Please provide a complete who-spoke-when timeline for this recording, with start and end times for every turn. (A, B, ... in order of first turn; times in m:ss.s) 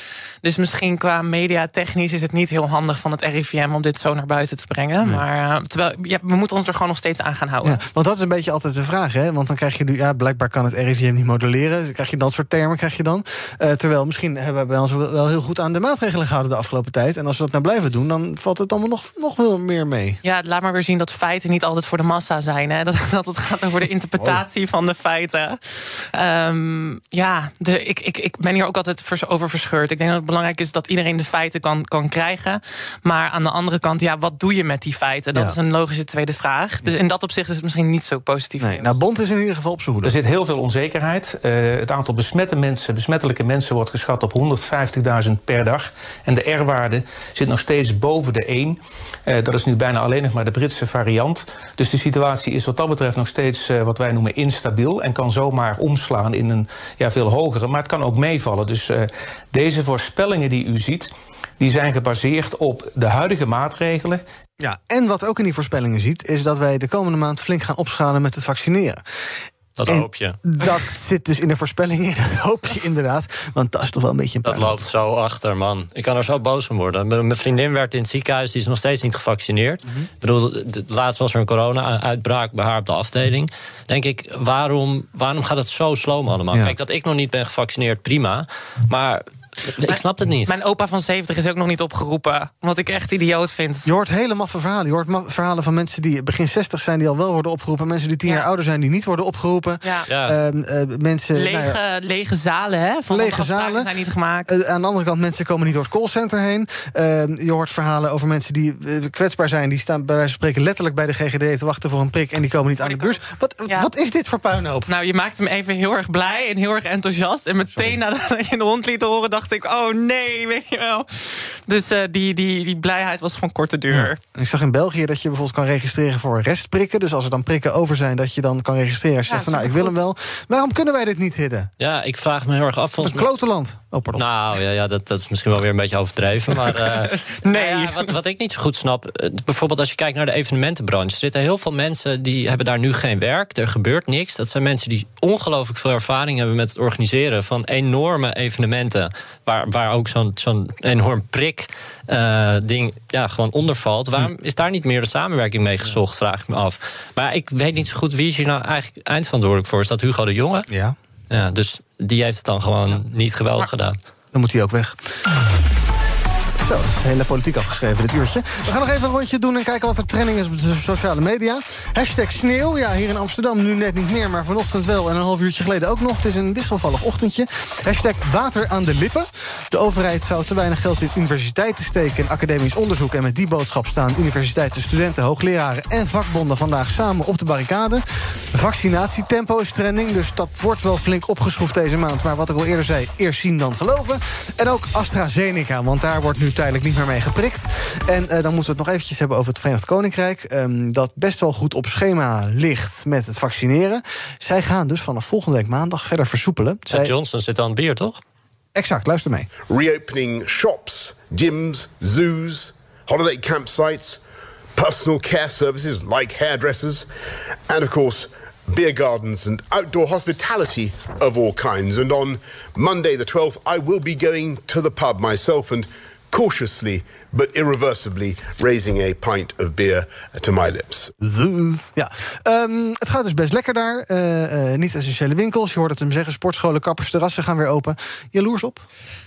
0:00.4-0:07.8 A
0:07.6-0:20.2 B
0:20.2-0:39.0 A
0:38.6-0:40.2 B
0:40.0-1:01.1 C
1:01.6-1:04.2 C
1:04.6-1:09.0 B
1:09.8-1:10.4 D
1:09.9-1:14.8 B
1:14.4-1:30.5 D
1:29.8-1:33.9 A
1:33.8-1:41.8 B
1:40.1-1:40.4 D
1:41.3-1:44.5 A
1:43.1-1:43.9 B
1:44.4-1:54.9 B
1:52.8-1:53.9 A
1:54.9-2:04.2 A
2:03.9-2:11.7 B
2:09.3-2:10.0 A
2:11.8-2:13.3 D
2:13.0-2:14.2 B
2:14.2-2:40.7 D
2:17.4-2:18.1 A
2:40.7-2:41.0 B
2:41.3-2:44.0 D
2:44.3-2:45.1 B
2:46.6-3:27.1 B
3:26.9-3:28.2 D
3:28.7-3:29.5 B
3:29.6-3:34.2 E
3:34.8-3:37.1 E
3:37.7-3:51.1 E
3:51.2-3:58.8 B